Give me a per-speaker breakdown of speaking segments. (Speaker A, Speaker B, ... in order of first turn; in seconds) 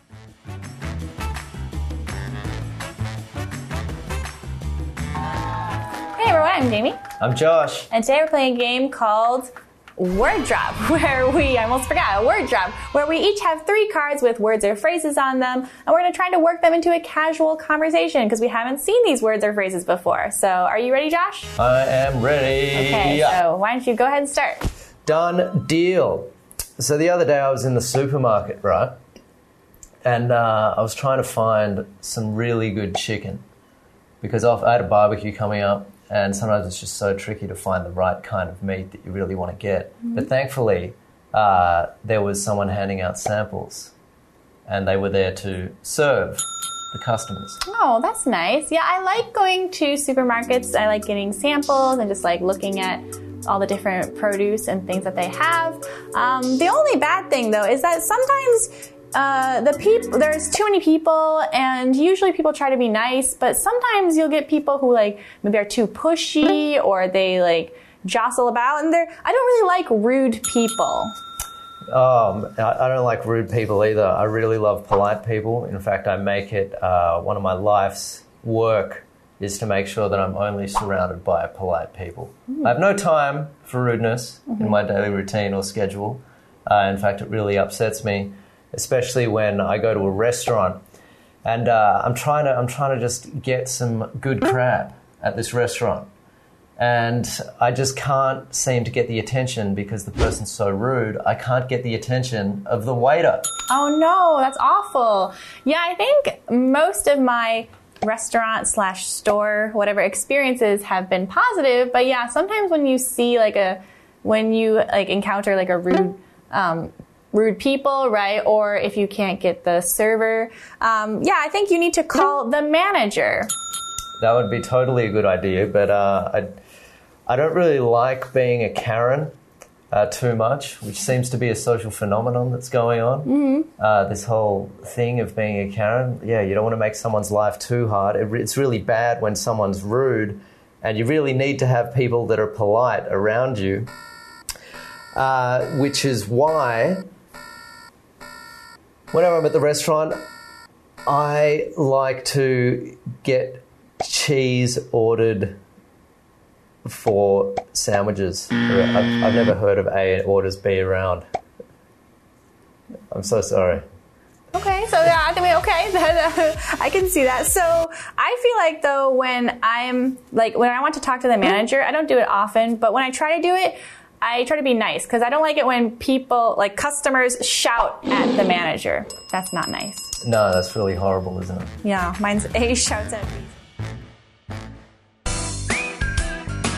Speaker A: 6.1-7.0, 7.9-21.5, 22.7-24.6, 47.6-71.1, 103.7-123.5, 133.2-133.7, 164.5-180.1, 181.8-183.5
Speaker B: 7.2-7.9, 21.6-23.4, 25.1-28.9, 30.0-33.4, 34.2-43.9, 44.6-47.6, 71.9-90.8, 91.4-96.1, 96.8-103.5, 124.2-126.6, 127.3-129.3, 129.9-143.9, 145.1-147.1, 149.1-150.2, 151.1-155.6, 156.8-161.2, 163.1-163.8, 180.2-181.7